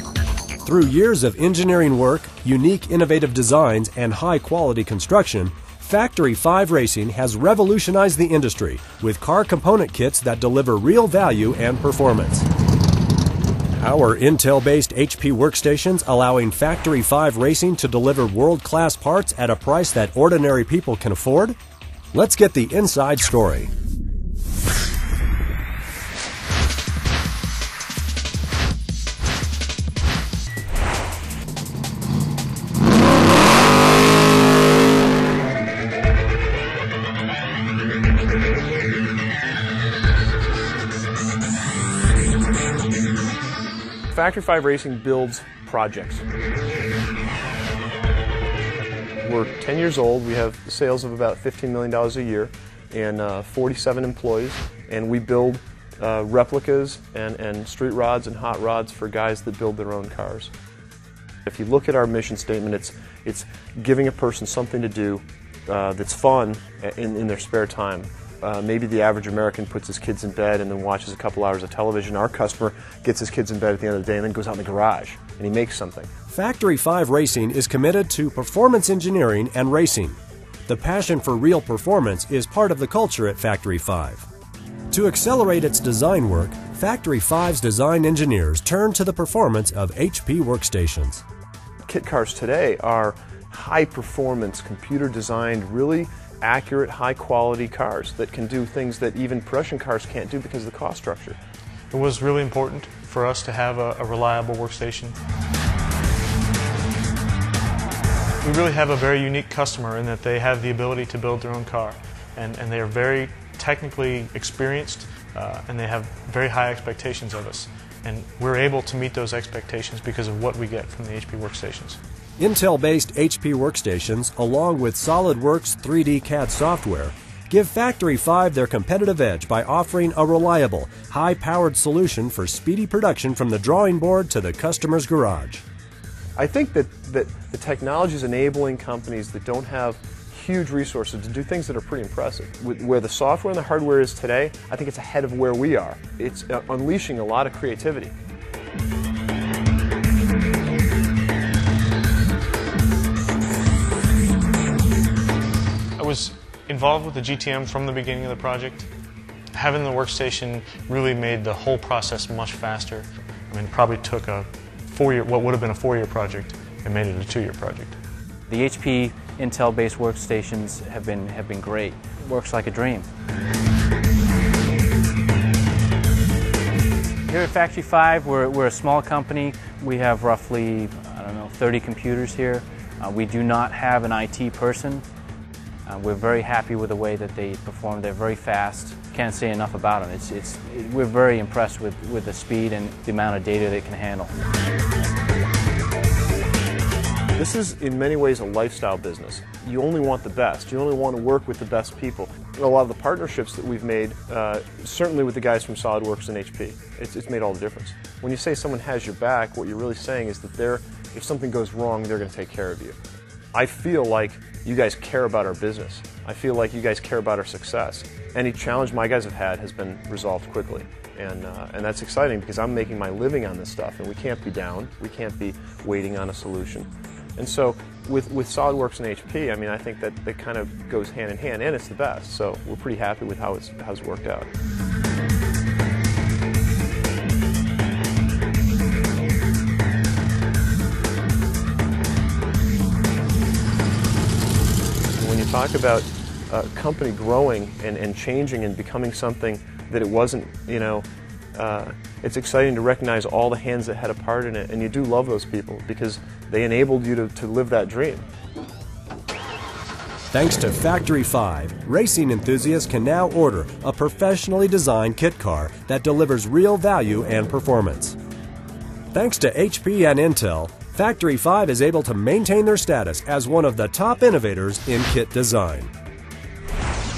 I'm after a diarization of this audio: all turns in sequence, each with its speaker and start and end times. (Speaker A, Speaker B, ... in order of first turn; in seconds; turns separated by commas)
Speaker A: 0.6-12.5, Speaker A: 13.8-21.6, Speaker A: 22.1-23.7, Speaker B: 44.1-46.2, Speaker B: 49.2-60.5, Speaker B: 61.5-76.1, Speaker A: 76.3-84.3, Speaker A: 84.9-91.2, Speaker B: 91.9-101.4, Speaker C: 101.9-105.2, Speaker C: 108.4-122.0, Speaker A: 122.4-135.7, Speaker B: 136.4-148.1, Speaker C: 156.0-158.9, Speaker C: 159.5-168.0, Speaker D: 168.5-173.1, Speaker D: 177.3-185.0, Speaker D: 185.9-194.3, Speaker B: 197.4-213.0, Speaker B: 213.5-234.5, Speaker B: 245.1-258.2, Speaker A: 260.3-268.2, Speaker A: 269.1-275.9